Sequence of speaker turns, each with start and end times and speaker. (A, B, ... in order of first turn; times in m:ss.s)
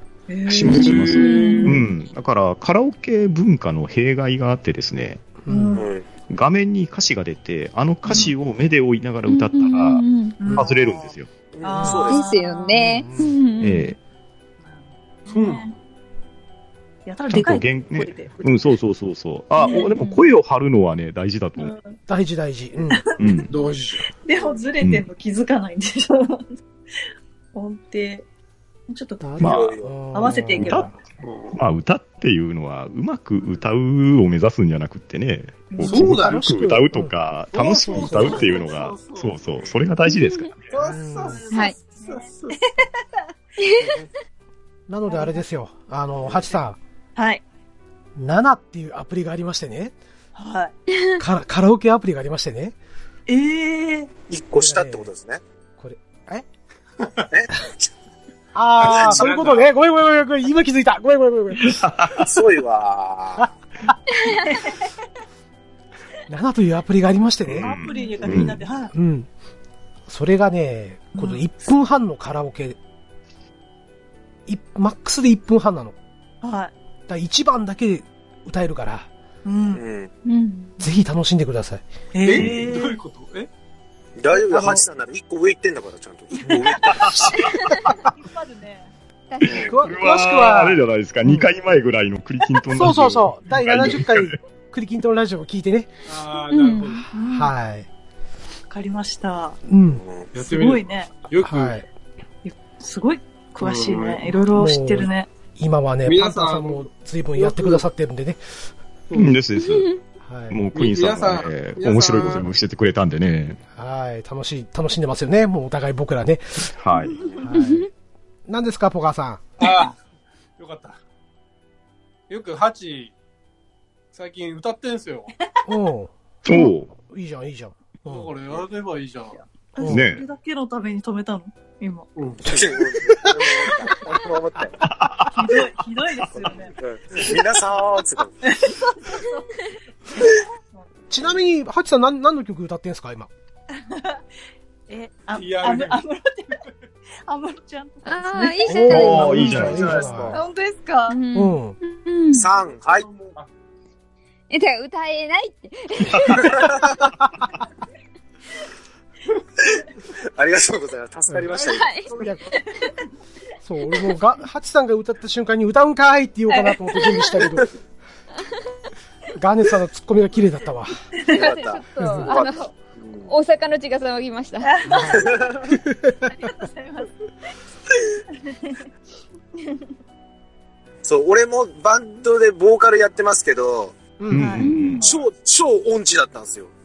0:00.3-0:01.8 A
0:00.5-0:05.2 B
0:00.6-0:01.8 C
0:01.2-0:01.8 D
0:05.4-0:05.8 E
0:05.5-0:05.9 A
0:05.8-0:06.1 F
0:06.3-0:11.3 B
0:08.0-0:08.3 A
0:09.3-0:10.4 D
0:10.4-0:13.1 A
0:11.5-0:12.2 F
0:11.7-0:12.1 E
0:12.0-0:13.9 D
0:13.0-0:13.3 E
0:13.6-0:14.0 B
0:14.6-0:15.7 A
0:15.3-0:15.7 C
0:17.0-0:18.5 A
0:17.3-0:21.7 B
0:19.6-0:19.9 A
0:19.8-0:20.3 D
0:21.6-0:22.0 A
0:22.1-0:23.0 E
0:22.9-0:23.5 A
0:23.2-0:23.5 B
0:23.5-0:24.1 C
0:24.2-0:26.6 A
0:24.8-0:25.1 B
0:27.5-0:28.2 A
0:28.9-0:29.2 A
0:29.2-0:31.0 E
0:29.4-0:30.0 F
0:29.4-0:29.8 B
0:30.1-0:30.9 A
0:30.6-0:30.9 B
0:31.2-0:31.6 C
0:31.5-0:40.7 B
0:35.7-0:36.2 A
0:35.8-0:36.8 C
0:35.9-0:37.1 E
0:37.5-0:39.4 C
0:37.8-0:38.6 E
0:40.0-0:40.5 D
0:40.7-0:42.9 C
0:40.9-0:41.4 E
0:41.0-0:42.9 A
0:41.5-0:41.8 D
0:43.6-0:44.0 D
0:44.9-0:46.8 E
0:45.1-0:45.4 A
0:47.2-0:47.4 A
0:48.2-0:49.9 E
0:50.3-0:50.7 A
0:50.9-0:51.2 D
0:51.2-0:52.7 E
0:53.3-0:54.1 A
0:54.3-0:55.4 F
0:54.5-0:55.1 E
0:55.8-0:56.4 E
0:57.3-0:57.9 F
0:58.5-1:01.8 E
0:58.8-0:59.6 F
0:58.8-0:59.7 C
1:01.6-1:02.3 B
1:02.2-1:03.5 F
1:04.3-1:04.9 A
1:06.3-1:07.7 E
1:07.5-1:08.6 B
1:07.6-1:08.9 A
1:08.9-1:09.3 E
1:10.1-1:12.8 E
1:11.2-1:11.4 A
1:14.5-1:16.0 E
1:16.4-1:16.7 A
1:17.1-1:19.1 E
1:19.4-1:19.8 A
1:19.7-1:20.1 F
1:20.2-1:20.8 D
1:20.8-1:21.9 E
1:22.1-1:23.0 A
1:22.2-1:23.5 C
1:24.2-1:27.4 F
1:24.5-1:24.8 E
1:26.4-1:26.7 E
1:26.4-1:26.8 A
1:26.9-1:27.4 B
1:27.8-1:28.9 A
1:29.3-1:29.7 D
1:29.4-1:29.7 F
1:29.4-1:34.4 B
1:29.5-1:31.5 E
1:32.7-1:35.9 E
1:36.0-1:37.1 C
1:36.5-1:37.0 D
1:37.1-1:37.5 A
1:37.3-1:37.9 E
1:38.7-1:39.6 A
1:39.7-1:40.0 E
1:39.9-1:40.3 F
1:40.3-1:41.8 C
1:40.4-1:41.1 A
1:41.4-1:41.8 E
1:42.4-1:45.3 A
1:43.6-1:44.4 C
1:44.5-1:48.4 E
1:46.0-1:47.8 C
1:49.1-1:49.4 C
1:49.1-1:49.9 B
1:49.6-1:50.0 D
1:50.2-1:50.6 E
1:50.5-1:53.6 B
1:50.7-1:52.5 C
1:53.7-1:56.7 E
1:56.7-1:57.3 B
1:57.2-1:57.4 F
1:57.4-1:57.9 E
1:57.5-1:57.9 D
1:58.5-1:59.4 E
1:59.6-2:00.0 C
2:00.6-2:01.0 C
2:02.3-2:03.1 C
2:04.1-2:05.3 C
2:05.6-2:06.1 E
2:06.4-2:06.9 B
2:07.1-2:08.3 E
2:08.0-2:09.4 C
2:09.7-2:12.1 A
2:09.8-2:10.1 E
2:09.8-2:10.2 B
2:12.2-2:13.2 C
2:12.4-2:14.8 F
2:14.8-2:15.6 B
2:15.3-2:17.4 A
2:16.3-2:18.3 F
2:18.4-2:19.6 A
2:20.7-2:21.3 A
2:21.1-2:23.3 E
2:23.8-2:24.2 A
2:24.9-2:26.6 A
2:25.3-2:26.0 C
2:27.2-2:31.2 A
2:28.0-2:29.8 D
2:28.7-2:30.4 E
2:28.9-2:30.1 B
2:29.3-2:30.4 F
2:31.1-2:32.5 D
2:31.3-2:31.8 E
2:32.3-2:33.3 F
2:32.7-2:33.5 C
2:34.5-2:36.9 D
2:36.1-2:36.4 B
2:36.4-2:37.0 F
2:40.3-2:42.4 F
2:41.3-2:41.5 E
2:41.6-2:42.1 D
2:42.2-2:42.4 E
2:43.6-2:47.7 E
2:46.5-2:47.4 A
2:49.4-2:51.0 E
2:51.2-2:51.5 A
2:51.3-2:54.8 D
2:51.3-2:53.3 F
2:52.0-2:52.3 E
2:54.6-2:55.2 A
2:54.8-2:56.3 E
2:55.1-2:55.8 F
2:56.3-2:57.1 A
2:58.4-2:58.9 A
3:01.0-3:04.0 F
3:04.2-3:04.5 E
3:04.3-3:04.7 A
3:04.3-3:05.0 B
3:04.5-3:05.0 D
3:05.0-3:06.7 F